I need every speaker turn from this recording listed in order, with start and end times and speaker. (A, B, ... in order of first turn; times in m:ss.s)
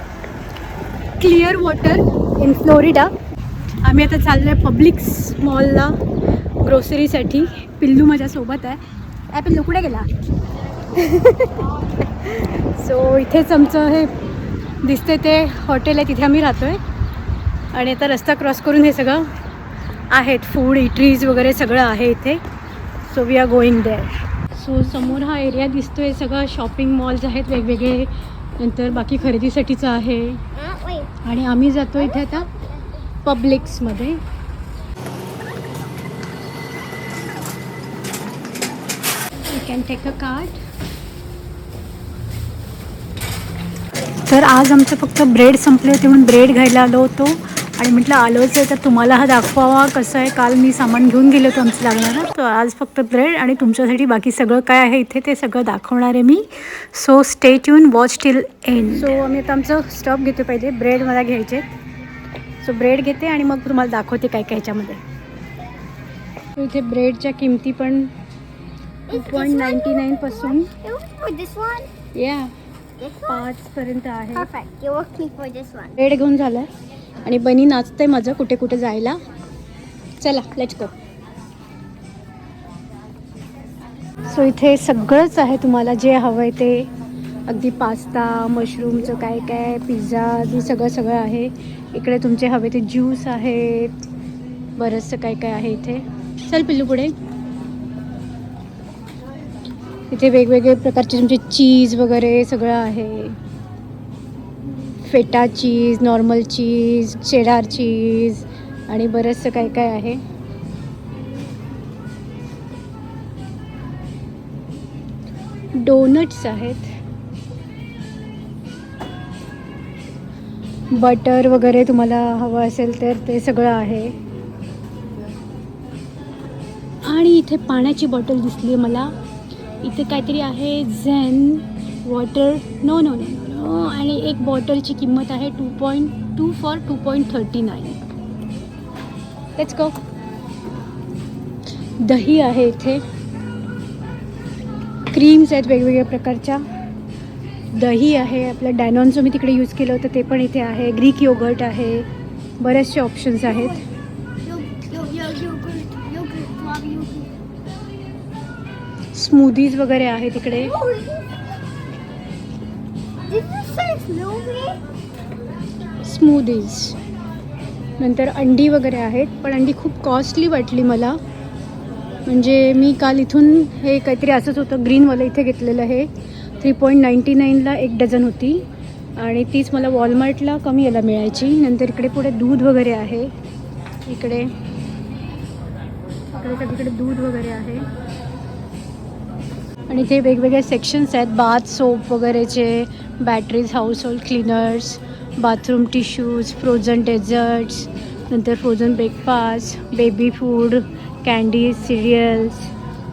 0:01.2-0:03.1 A
0:03.8-0:06.0 A
0:06.6-0:08.8 A
0:09.3-0:10.1 A
0:11.0-0:11.5 A
0:12.2-0:14.1 A
0:14.8-0:16.8 A
0:17.7-0:19.3 A
0:20.1-0:22.4 A
0:23.1-0:30.4 A
0:30.6-0:31.1 B
0:31.2-0:32.5 A
0:33.2-0:34.2 A
0:39.5-0:40.6 A
0:44.3-1:01.7 A
1:02.6-1:05.0 A
1:06.6-1:08.1 A
1:09.1-1:11.9 B
1:09.1-1:10.7 A
1:12.1-1:12.5 A
1:13.0-1:13.5 B
1:13.3-1:14.5 A
1:14.3-1:16.0 B
1:16.0-1:16.7 A
1:17.3-1:19.2 A
1:20.2-1:21.0 A
1:24.3-1:26.9 A
1:27.5-1:34.0 A
1:34.8-1:37.1 A
1:40.1-1:43.4 A
1:45.0-1:50.2 A
1:55.8-1:56.9 A
2:00.9-2:04.2 A
2:07.0-2:09.1 A
2:09.8-2:18.0 A
2:19.6-2:19.9 A
2:22.0-2:23.0 A
2:25.1-2:26.6 A
2:27.7-2:32.1 A
2:32.6-2:33.8 A
2:33.5-2:33.8 B
2:34.4-2:37.3 B
2:39.1-2:40.8 A
2:40.5-2:41.4 B
2:43.3-2:44.8 B
2:46.0-2:47.0 A
2:48.0-2:51.2 A
2:52.3-2:56.1 A
2:56.6-2:58.6 A
2:59.2-3:03.3 A
3:04.1-3:04.5 A
3:06.3-3:07.9 A
3:09.9-3:22.7 A